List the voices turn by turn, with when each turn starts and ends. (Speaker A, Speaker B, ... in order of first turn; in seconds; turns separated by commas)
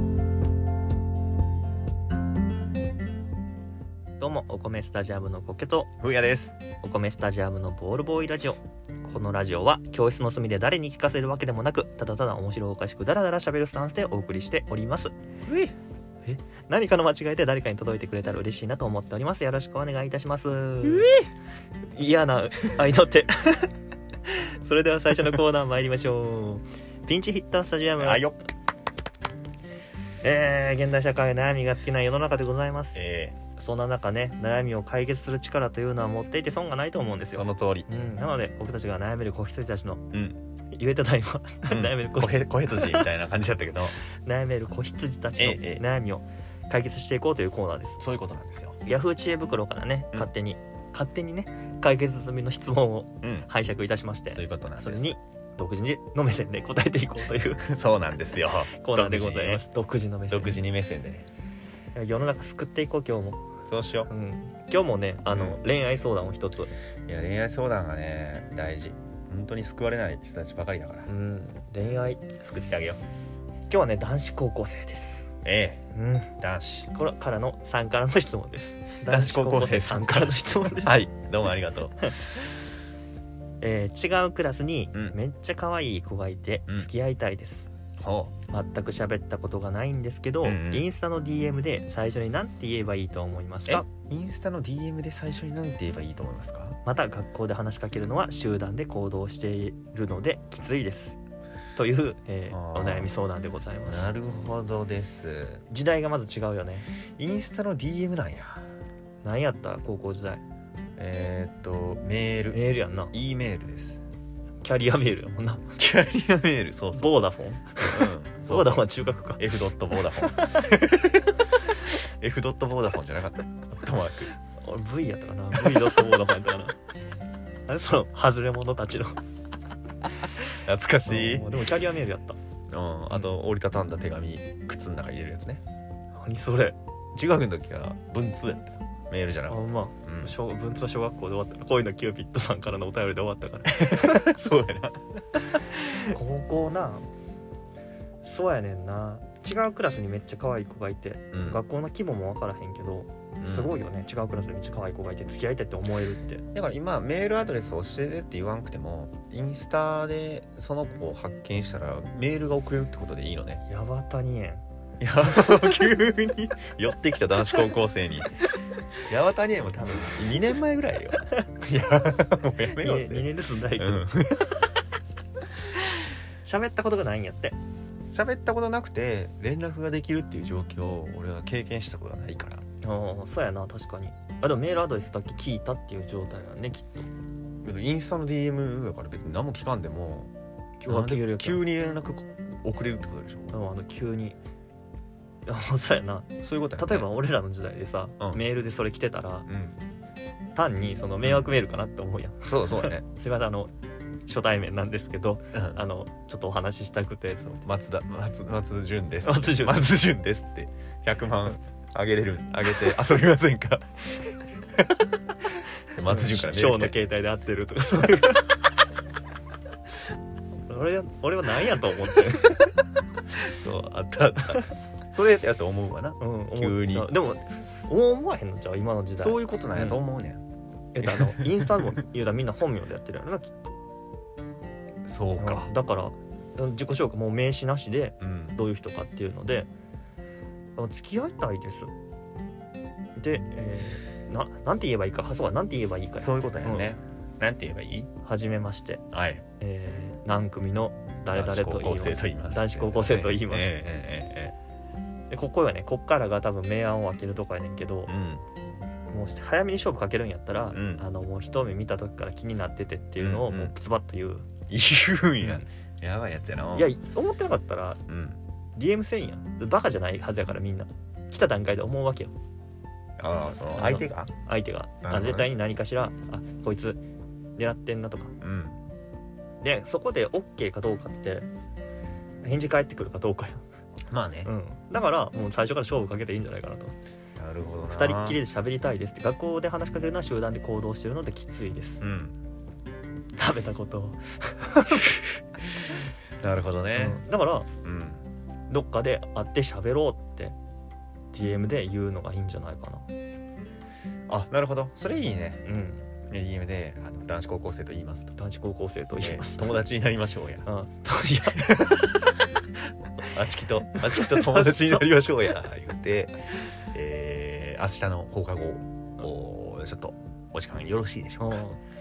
Speaker A: 4.2-5.9, Speaker B: 6.0-6.6, Speaker A: 6.8-15.1, Speaker B: 15.4-15.7, Speaker A: 16.2-21.1, Speaker B: 20.8-21.3, Speaker A: 21.9-23.7, Speaker A: 24.3-28.2, Speaker B: 28.0-28.4, Speaker A: 30.2-33.0, Speaker B: 32.9-33.4, Speaker A: 33.6-40.1, Speaker B: 37.3-37.9, Speaker B: 40.1-40.4, Speaker A: 40.7-43.0, Speaker B: 41.7-44.0, Speaker A: 44.2-48.0, Speaker B: 45.4-45.8, Speaker B: 48.0-48.8, Speaker A: 48.8-57.7, Speaker B: 53.2-53.5, Speaker B: 54.3-55.1, Speaker B: 57.6-59.6, Speaker A: 58.7-60.6, Speaker B: 60.3-61.2, Speaker A: 61.9-63.4, Speaker B: 63.7-64.1, Speaker A: 64.1-66.7, Speaker B: 65.3-65.6, Speaker B: 67.0-71.1, Speaker A: 71.1-72.2, Speaker B: 72.4-73.0, Speaker A: 73.7-75.3, Speaker B: 75.4-75.9, Speaker A: 75.9-76.3, Speaker B: 76.4-76.9, Speaker A: 76.9-81.0, Speaker B: 79.0-82.2, Speaker A: 83.6-87.7, Speaker B: 88.0-88.3, Speaker A: 88.5-93.8, Speaker B: 90.4-90.8, Speaker B: 93.7-96.8, Speaker A: 96.8-101.2, Speaker A: 101.8-104.1, Speaker B: 102.5-103.1, Speaker B: 103.8-105.6, Speaker A: 105.7-106.9, Speaker B: 107.2-108.7, Speaker A: 109.2-110.4, Speaker B: 111.0-112.6, Speaker A: 112.5-113.1, Speaker B: 113.1-114.0, Speaker A: 114.6-115.7, Speaker B: 115.8-124.3, Speaker A: 117.0-119.5, Speaker A: 124.6-126.8, Speaker A: 127.7-129.2, Speaker B: 130.5-131.5, Speaker A: 131.1-132.4, Speaker B: 132.7-135.6, Speaker A: 136.1-136.8, Speaker B: 137.1-140.3, Speaker A: 139.5-144.2, Speaker B: 143.7-146.2, Speaker A: 146.1-147.1, Speaker A: 148.2-156.4, Speaker B: 151.3-151.6, Speaker B: 153.4-153.7, Speaker B: 156.5-163.6, Speaker A: 163.7-164.6, Speaker B: 165.0-168.4, Speaker B: 169.0-174.7, Speaker A: 172.7-174.1, Speaker A: 176.4-177.6, Speaker B: 178.1-182.6, Speaker A: 182.8-187.1, Speaker B: 187.6-190.3, Speaker A: 190.8-191.6, Speaker B: 190.8-193.6, Speaker A: 193.5-194.4, Speaker A: 195.4-199.5, Speaker B: 196.4-197.1, Speaker B: 199.5-199.8, Speaker A: 200.5-203.7, Speaker B: 201.2-201.5, Speaker B: 202.5-203.0, Speaker A: 204.2-207.6, Speaker B: 205.5-205.8, Speaker B: 207.4-215.1, Speaker A: 209.2-209.9, Speaker B: 215.9-217.0, Speaker A: 216.1-218.5, Speaker A: 220.7-222.6, Speaker B: 223.3-227.1, Speaker A: 226.2-230.0, Speaker B: 229.2-230.4, Speaker A: 230.9-233.7, Speaker B: 231.0-231.9, Speaker B: 235.0-235.7, Speaker A: 235.4-239.7, Speaker B: 238.2-238.6, Speaker A: 240.8-241.9, Speaker A: 243.2-246.9, Speaker B: 246.2-248.1, Speaker A: 248.2-249.0, Speaker B: 249.1-249.4, Speaker A: 249.6-253.8, Speaker B: 251.3-254.5, Speaker A: 255.3-258.1, Speaker B: 258.1-258.4, Speaker A: 259.1-264.5, Speaker B: 260.7-261.0, Speaker B: 263.2-263.7, Speaker B: 264.7-266.9, Speaker A: 265.4-265.7, Speaker A: 266.7-268.0, Speaker B: 268.1-268.4, Speaker A: 268.8-272.3, Speaker B: 273.2-274.3, Speaker A: 273.7-277.0, Speaker B: 275.0-275.5, Speaker A: 277.6-278.4, Speaker B: 278.4-278.8, Speaker A: 279.6-281.5, Speaker A: 282.4-283.6, Speaker B: 284.1-284.5, Speaker A: 284.4-286.9, Speaker B: 287.4-288.4, Speaker A: 287.9-292.0, Speaker B: 292.0-292.4, Speaker A: 293.4-295.2, Speaker B: 296.4-297.2, Speaker A: 296.9-297.7, Speaker B: 297.8-298.2, Speaker A: 298.7-300.6, Speaker A: 301.3-303.1, Speaker B: 304.3-305.6, Speaker A: 305.6-306.0, Speaker B: 306.3-308.3, Speaker A: 308.4-309.8, Speaker B: 309.2-310.7, Speaker A: 310.6-311.8, Speaker B: 311.4-321.6, Speaker A: 314.0-315.1, Speaker A: 321.4-321.8